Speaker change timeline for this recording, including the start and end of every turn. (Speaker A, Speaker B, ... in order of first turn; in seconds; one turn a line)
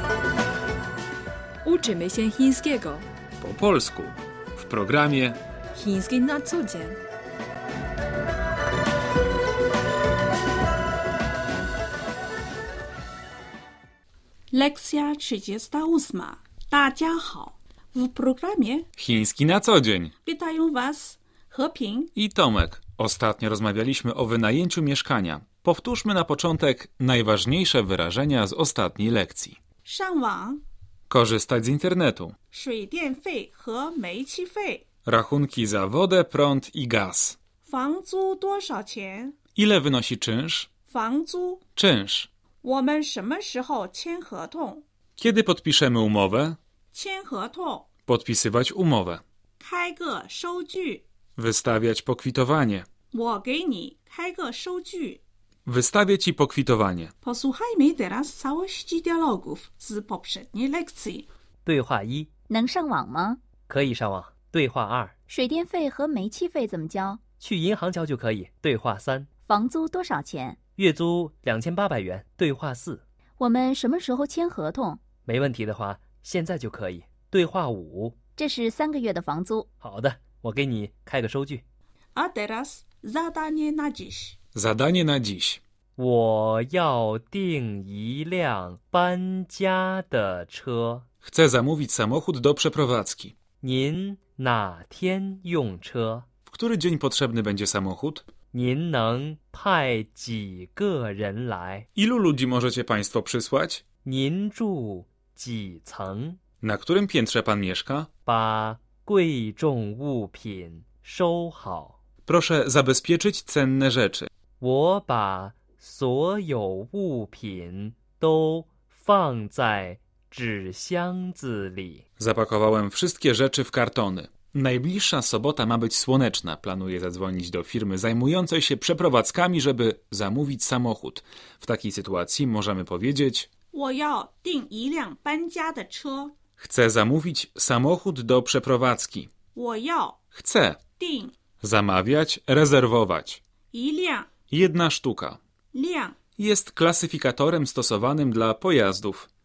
Speaker A: 1.6-3.1
Speaker B: 3.4-5.4
Speaker A: 5.7-7.0
Speaker C: 14.5-18.9
Speaker B: 19.0-20.1
Speaker C: 20.2-22.1
Speaker B: 22.1-29.6
Speaker C: 29.8-30.6
Speaker B: 31.1-32.3
Speaker C: 32.5-34.8
Speaker B: 35.0-37.4
Speaker C: 37.6-39.3
Speaker B: 39.5-40.7
Speaker C: 40.9-41.6
Speaker B: 41.8-42.3
Speaker C: 42.6-44.8
Speaker B: 45.2-46.6
Speaker C: 46.9-47.9
Speaker B: 48.1-49.2
Speaker C: 49.6-51.0
Speaker B: 51.4-52.9
Speaker C: 53.1-55.2
Speaker B: 55.6-57.1
Speaker C: 57.2-61.3
Speaker D: 61.6-62.3
Speaker E: 62.5-63.4
Speaker D: 63.6-65.1
Speaker E: 65.3-67.2
Speaker D: 67.4-69.3
Speaker E: 69.5-70.6
Speaker D: 70.8-73.0
Speaker E: 73.4-75.0
Speaker D: 75.2-78.2
Speaker E: 78.4-79.7
Speaker D: 79.8-81.6
Speaker C: 82.1-84.4
Speaker B: 84.5-85.6
Speaker D: 86.0-91.0
Speaker B: 91.2-93.3
Speaker D: 93.6-96.2
Speaker B: 96.5-98.3
Speaker D: 98.5-101.9
Speaker B: 102.0-103.8
Speaker D: 104.0-106.4
Speaker B: 106.6-108.1
Speaker D: 108.2-112.0
Speaker B: 112.2-114.3
Speaker D: 114.6-122.0
Speaker B: 122.2-133.5
Speaker C: 133.7-136.3
Speaker B: 136.6-139.3
Speaker C: 139.5-140.2
Speaker B: 140.3-140.8
Speaker C: 141.0-141.3
Speaker B: 141.6-143.4
Speaker C: 143.7-144.3
Speaker B: 144.5-145.4
Speaker C: 145.7-146.2
Speaker B: 146.4-149.3